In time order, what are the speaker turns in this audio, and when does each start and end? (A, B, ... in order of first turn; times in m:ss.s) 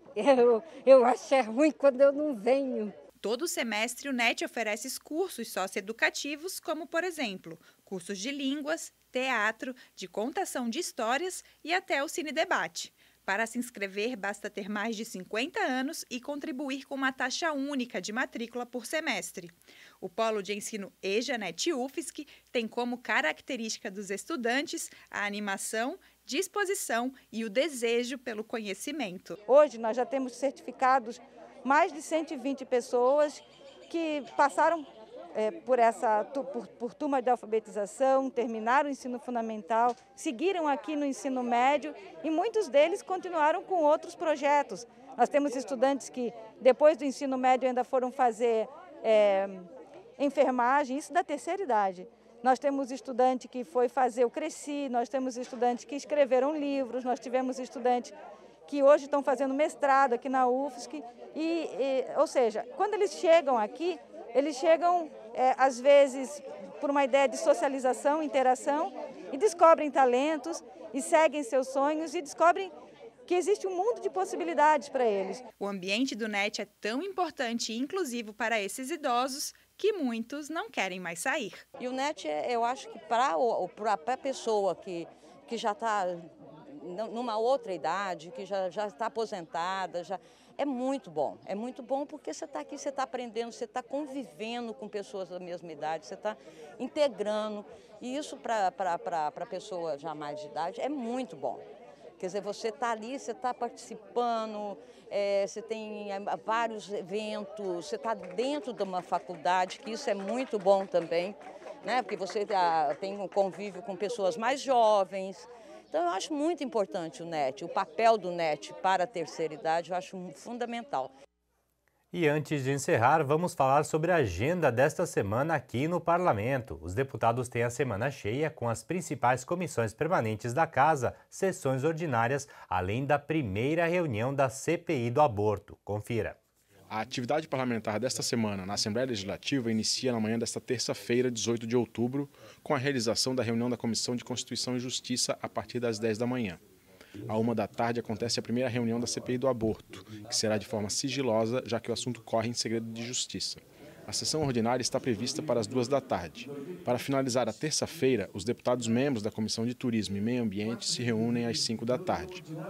0:00.2-0:03.0 A
0:03.2-0:29.4 B
0:29.5-0:58.1 C
0:58.7-1:12.7 C
1:13.3-1:15.4 C
1:15.6-1:21.6 B
1:21.8-1:41.6 D
1:42.2-2:01.1 D
2:02.1-2:16.4 E
2:16.9-2:26.6 F
2:27.3-2:42.5 F